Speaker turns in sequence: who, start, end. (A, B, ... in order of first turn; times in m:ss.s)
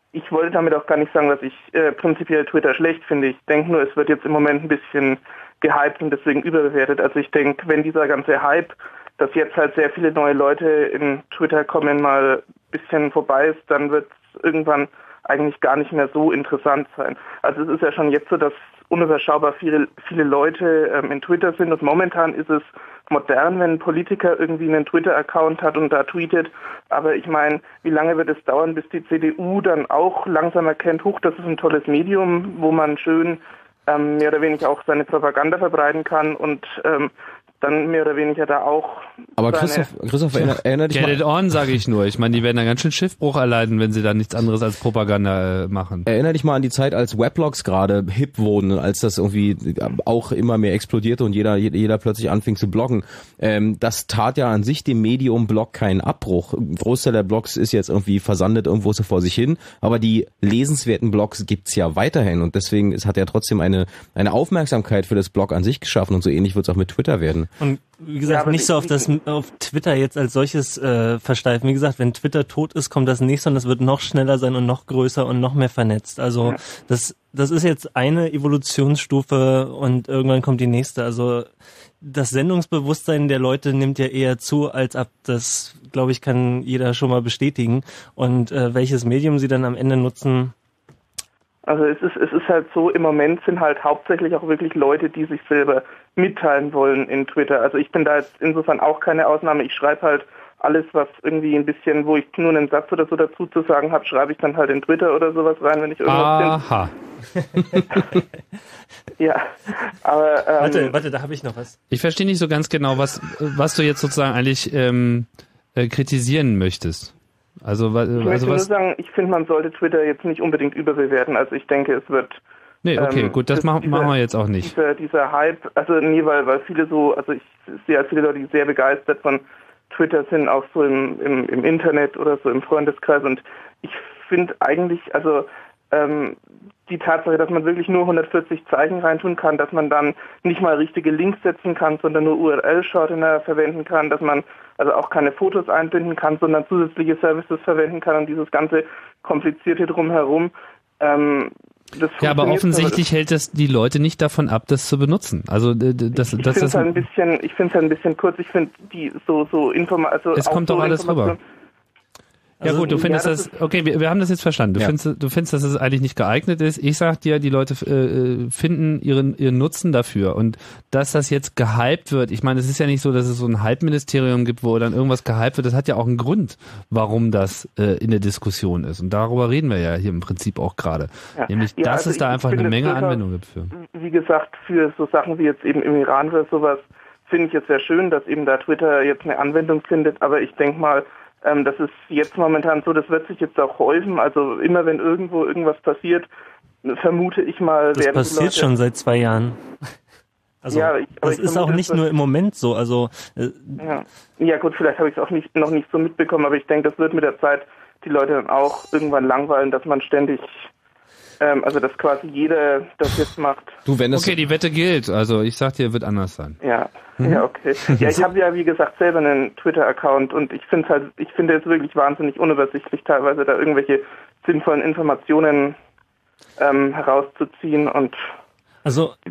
0:00.1-0:39.9 A
0:39.4-0:41.2 B
0:40.4-0:46.1 C
0:46.1-1:07.5 B
1:07.6-1:30.5 D
1:08.2-1:09.1 A
1:31.7-1:46.6 A
1:46.1-1:46.9 C
1:49.2-1:51.0 A
1:50.6-1:51.8 D
1:51.9-1:58.7 C
1:58.2-2:02.4 A
2:02.8-2:04.8 C
2:03.0-2:33.0 A
2:32.2-2:37.0 C
2:36.2-2:41.4 A
2:40.4-2:41.4 C
2:42.6-2:43.1 D
2:42.6-3:03.7 C
2:42.8-2:43.5 A
3:01.4-3:16.3 A
3:16.8-3:18.7 A
3:17.9-3:20.0 D
3:20.6-3:23.9 D
3:20.7-3:22.0 A
3:23.8-3:30.7 A
3:31.4-3:33.8 A
3:33.9-3:34.4 B
3:34.1-3:36.6 C
3:36.6-3:45.8 A
3:37.2-3:38.2 C
3:46.6-3:48.3 A
3:48.8-3:49.2 D